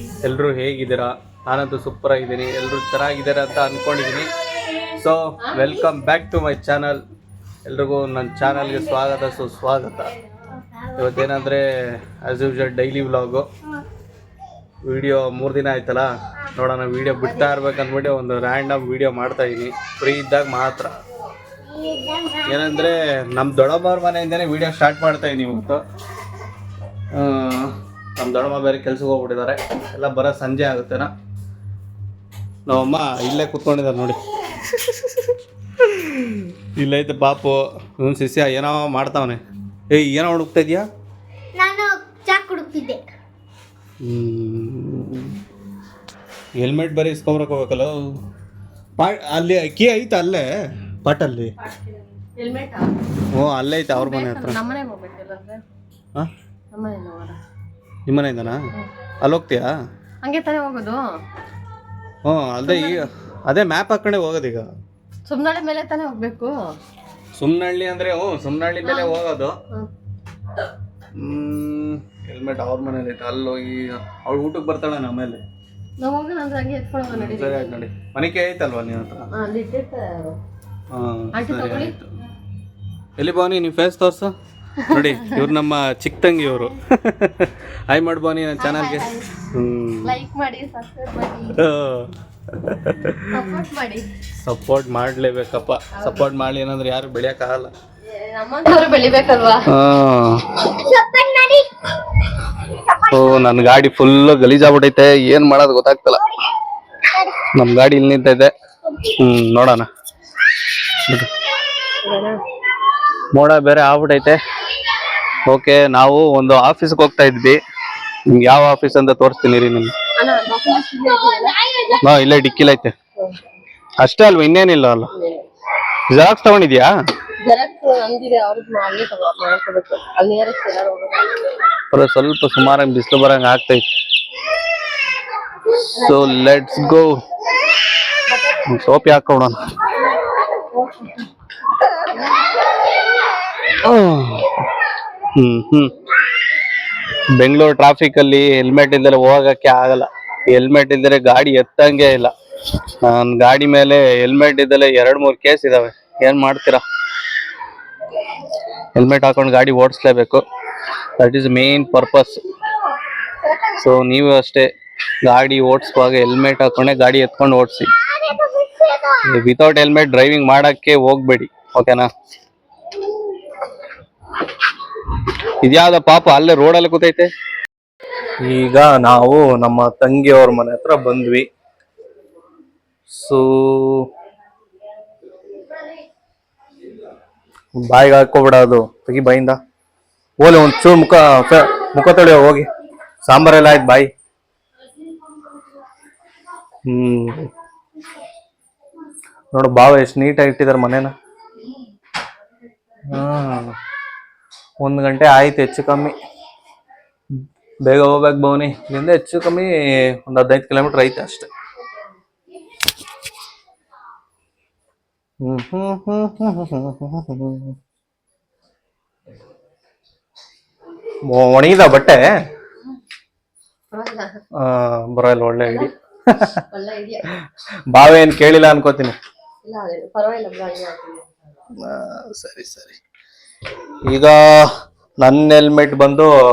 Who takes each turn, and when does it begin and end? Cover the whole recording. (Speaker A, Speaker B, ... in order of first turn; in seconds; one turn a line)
Speaker A: 0.2-4.3
Speaker A: 4.9-7.0
Speaker B: 5.4-5.7
Speaker A: 7.6-10.1
Speaker A: 11.0-13.5
Speaker A: 14.8-20.9
Speaker C: 21.6-22.9
Speaker A: 22.4-25.8
Speaker A: 27.1-31.1
Speaker A: 32.7-40.9
Speaker C: 41.5-43.0
Speaker A: 44.0-45.3
Speaker A: 46.6-48.0
Speaker A: 49.0-51.5
Speaker B: 52.4-53.0
Speaker A: 53.3-54.6
Speaker B: 53.9-55.6
Speaker B: 56.7-57.4
Speaker A: 58.1-58.6
Speaker A: 59.2-59.7
Speaker B: 60.2-61.0
Speaker A: 62.2-64.7
Speaker B: 62.6-63.1
Speaker B: 65.2-66.7
Speaker A: 67.3-69.5
Speaker B: 68.8-69.2
Speaker A: 71.2-75.4
Speaker B: 76.0-77.8
Speaker A: 77.1-79.3
Speaker B: 79.3-80.4
Speaker A: 80.9-82.1
Speaker B: 81.3-82.0
Speaker A: 83.2-84.3
Speaker A: 84.9-90.1
Speaker B: 84.9-85.4
Speaker B: 88.6-89.4
Speaker B: 90.0-91.6
Speaker A: 91.5-93.6
Speaker B: 93.2-94.1
Speaker A: 94.4-97.7
Speaker B: 95.9-96.2
Speaker B: 98.1-99.7
Speaker A: 99.7-100.8
Speaker C: 100.8-101.7
Speaker A: 103.1-106.2
Speaker C: 107.1-107.4
Speaker A: 107.5-108.5
Speaker A: 109.0-109.9
Speaker A: 110.9-111.3
Speaker B: 112.0-112.4
Speaker A: 113.3-114.4
Speaker A: 115.5-117.6
Speaker A: 118.3-119.9
Speaker B: 120.2-122.0
Speaker A: 122.0-122.9
Speaker A: 124.0-125.1
Speaker B: 125.1-125.5
Speaker A: 126.1-126.9
Speaker B: 127.4-131.4
Speaker A: 131.9-133.8
Speaker A: 135.9-137.2
Speaker A: 138.7-139.6
Speaker A: 143.8-144.6
Speaker A: 145.3-145.9
Speaker A: 147.4-152.3
Speaker A: 153.0-156.8
Speaker A: 158.9-160.4
Speaker A: 161.2-162.4
Speaker A: 163.7-164.7
Speaker A: 165.2-167.9
Speaker C: 168.0-169.4
Speaker A: 169.2-172.1
Speaker A: 175.6-177.3
Speaker A: 178.4-181.4
Speaker A: 183.1-184.1
Speaker A: 187.8-189.6
Speaker A: 190.4-192.7
Speaker A: 193.2-194.1
Speaker A: 196.9-197.5
Speaker A: 199.5-201.1
Speaker A: 203.1-203.7
Speaker A: 204.8-206.1
Speaker A: 207.8-211.5
Speaker A: 215.4-217.8
Speaker A: 221.3-222.3
Speaker B: 223.9-224.4
Speaker A: 224.6-226.6
Speaker B: 225.6-225.9
Speaker B: 226.7-227.2
Speaker A: 227.9-229.1
Speaker B: 229.6-231.3
Speaker A: 231.8-233.0
Speaker A: 234.1-234.7
Speaker A: 235.2-236.3